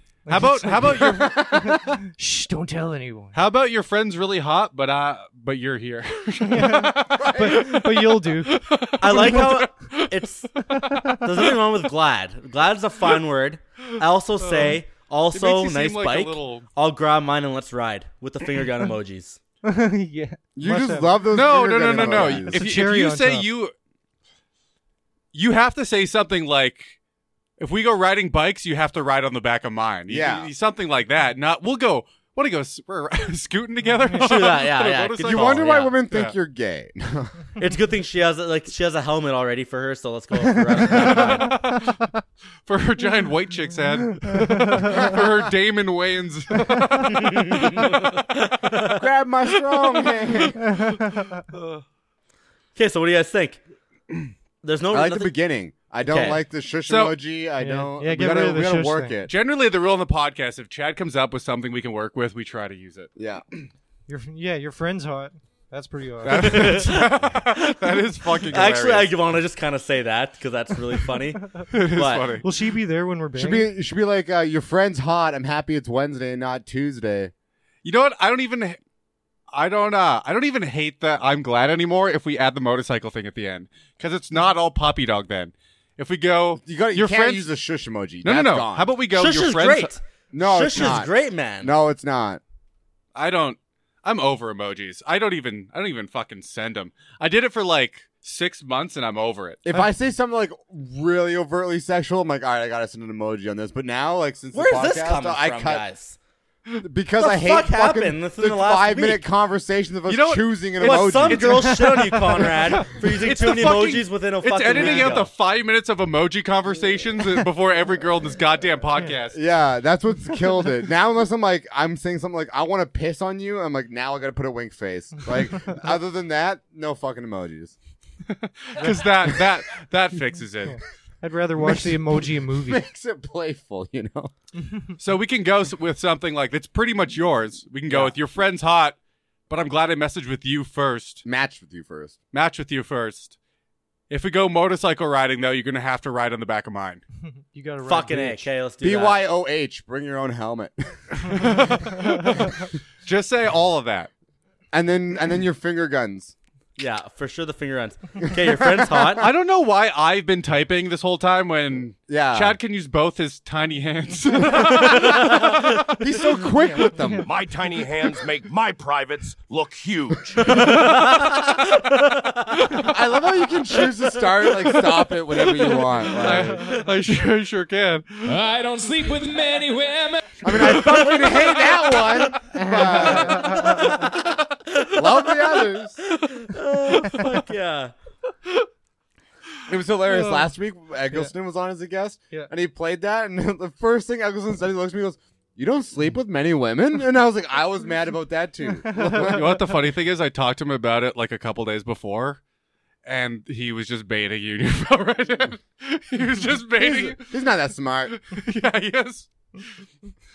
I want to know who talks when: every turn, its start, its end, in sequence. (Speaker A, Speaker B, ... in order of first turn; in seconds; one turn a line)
Speaker A: 0.3-3.4
Speaker B: 0.3-1.8
Speaker C: 1.0-1.8
Speaker B: 3.3-10.3
Speaker A: 6.5-8.6
Speaker C: 7.0-7.7
Speaker D: 9.0-10.7
Speaker A: 10.7-11.3
Speaker D: 11.2-19.4
Speaker B: 14.4-16.7
Speaker A: 19.6-21.2
Speaker C: 20.6-22.6
Speaker B: 21.3-23.7
Speaker A: 22.4-23.5
Speaker B: 25.3-27.0
Speaker B: 27.6-36.4
Speaker C: 30.1-30.5
Speaker D: 34.2-35.9
Speaker C: 35.2-37.4
Speaker D: 37.6-41.6
Speaker B: 40.8-42.0
Speaker A: 40.9-41.9
Speaker B: 42.7-48.3
Speaker A: 44.3-45.1
Speaker D: 47.0-49.0
Speaker C: 48.9-50.7
Speaker B: 49.6-51.8
Speaker D: 52.8-53.6
Speaker D: 54.6-55.3
Speaker C: 54.9-59.3
Speaker D: 56.0-56.4
Speaker B: 56.9-57.2
Speaker A: 57.6-59.1
Speaker B: 59.3-63.1
Speaker C: 63.2-63.4
Speaker A: 64.1-66.8
Speaker B: 66.2-69.2
Speaker D: 66.3-72.3
Speaker B: 71.7-72.5
Speaker A: 72.4-73.7
Speaker C: 73.3-77.3
Speaker B: 77.8-78.8
Speaker B: 79.5-87.5
Speaker C: 86.6-88.9
Speaker B: 88.2-89.9
Speaker D: 89.1-91.7
Speaker C: 90.3-92.4
Speaker B: 93.2-99.6
Speaker C: 99.7-105.9
Speaker D: 104.5-106.2
Speaker C: 106.8-111.8
Speaker D: 107.2-109.2
Speaker B: 110.1-119.4
Speaker D: 110.8-115.3
Speaker C: 114.8-115.1
Speaker C: 119.3-127.8
Speaker B: 128.3-130.8
Speaker A: 130.7-132.8
Speaker C: 131.8-134.3
Speaker B: 135.0-139.0
Speaker B: 139.5-141.2
Speaker C: 141.2-142.2
Speaker B: 142.3-143.4
Speaker B: 144.1-147.0
Speaker A: 147.5-148.5
Speaker D: 147.8-149.2
Speaker C: 148.8-151.6
Speaker B: 151.2-152.5
Speaker B: 153.1-154.1
Speaker C: 154.7-156.3
Speaker D: 156.8-159.3
Speaker C: 158.2-159.3
Speaker B: 159.2-165.3
Speaker C: 162.1-162.6
Speaker D: 164.5-165.9
Speaker C: 164.8-167.3
Speaker A: 166.9-167.2
Speaker E: 167.2-170.4
Speaker D: 170.4-172.8
Speaker B: 170.5-171.0
Speaker B: 172.7-173.0
Speaker C: 172.8-176.8
Speaker B: 175.8-178.4
Speaker F: 178.2-180.8
Speaker C: 180.4-183.8
Speaker B: 180.6-182.3
Speaker D: 183.3-187.9
Speaker C: 184.9-186.0
Speaker C: 189.7-199.5
Speaker A: 190.2-190.4
Speaker B: 199.1-202.4
Speaker B: 203.1-207.4
Speaker C: 206.8-208.2
Speaker B: 208.1-209.3